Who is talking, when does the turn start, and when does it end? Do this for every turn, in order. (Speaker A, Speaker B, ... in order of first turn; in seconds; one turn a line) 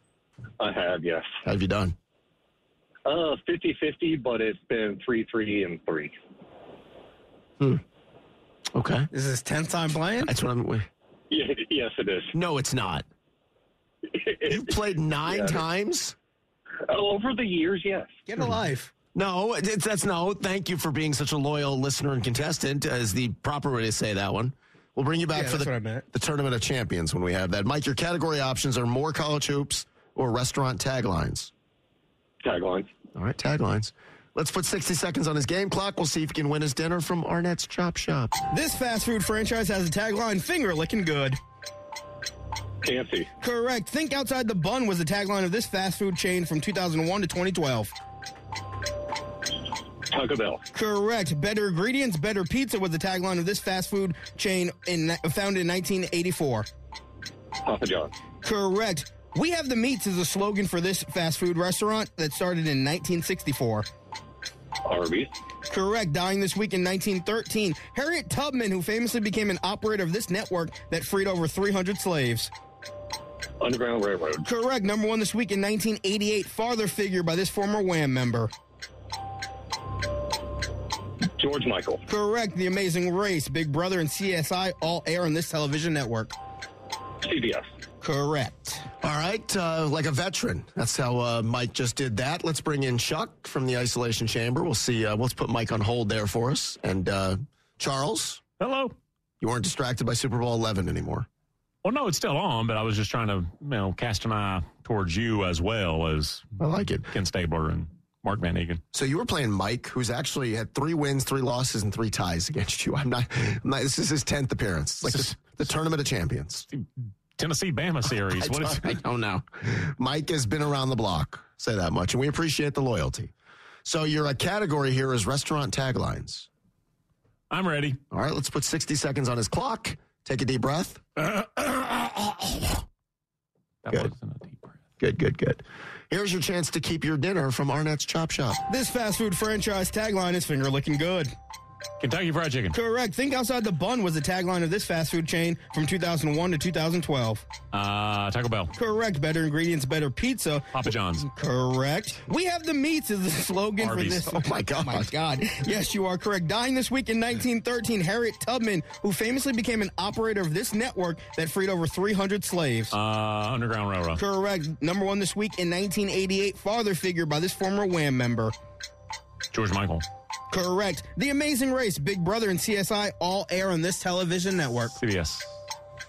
Speaker A: 0.6-1.3
Speaker B: 1.4-1.9
Speaker A: 3.1-6.2
Speaker B: 8.7-9.1
Speaker C: 9.1-10.3
Speaker B: 10.2-10.9
Speaker A: 11.3-12.3
Speaker B: 12.3-13.1
Speaker A: 14.1-15.6
Speaker B: 14.5-16.2
Speaker A: 16.9-18.2
Speaker C: 18.3-18.9
Speaker B: 19.1-31.5
Speaker C: 25.3-26.1
Speaker A: 32.4-32.9
Speaker B: 33.1-38.4
Speaker C: 38.5-41.4
Speaker A: 42.8-43.3
Speaker C: 43.4-47.9
Speaker A: 50.1-50.6
Speaker C: 50.7-56.7
Speaker A: 57.6-58.1
Speaker C: 58.4-63.9
Speaker A: 64.8-65.3
Speaker C: 65.7-72.5
Speaker A: 73.6-74.5
Speaker C: 74.4-78.5
Speaker A: 81.4-82.0
Speaker C: 82.1-86.3
Speaker A: 87.2-87.7
Speaker C: 88.0-88.9
Speaker B: 89.0-98.4
Speaker D: 98.6-99.0
Speaker B: 99.4-101.3
Speaker D: 101.8-106.5
Speaker B: 106.6-107.1
Speaker D: 107.1-108.8
Speaker B: 108.9-116.7
Speaker D: 117.4-119.0
Speaker B: 118.3-123.3
Speaker B: 123.8-126.5
Speaker D: 127.5-128.0
Speaker B: 128.1-131.0
Speaker D: 131.2-132.6
Speaker D: 133.8-134.8
Speaker B: 135.0-138.6
Speaker C: 138.7-141.3
Speaker D: 142.0-142.8
Speaker C: 142.7-147.4
Speaker D: 147.7-148.7
Speaker C: 148.8-162.9
Speaker D: 150.7-151.3
Speaker D: 153.8-154.3
Speaker B: 154.3-155.1
Speaker D: 162.9-164.2
Speaker C: 164.2-168.5
Speaker D: 169.5-170.0
Speaker C: 170.5-175.0
Speaker D: 175.0-175.5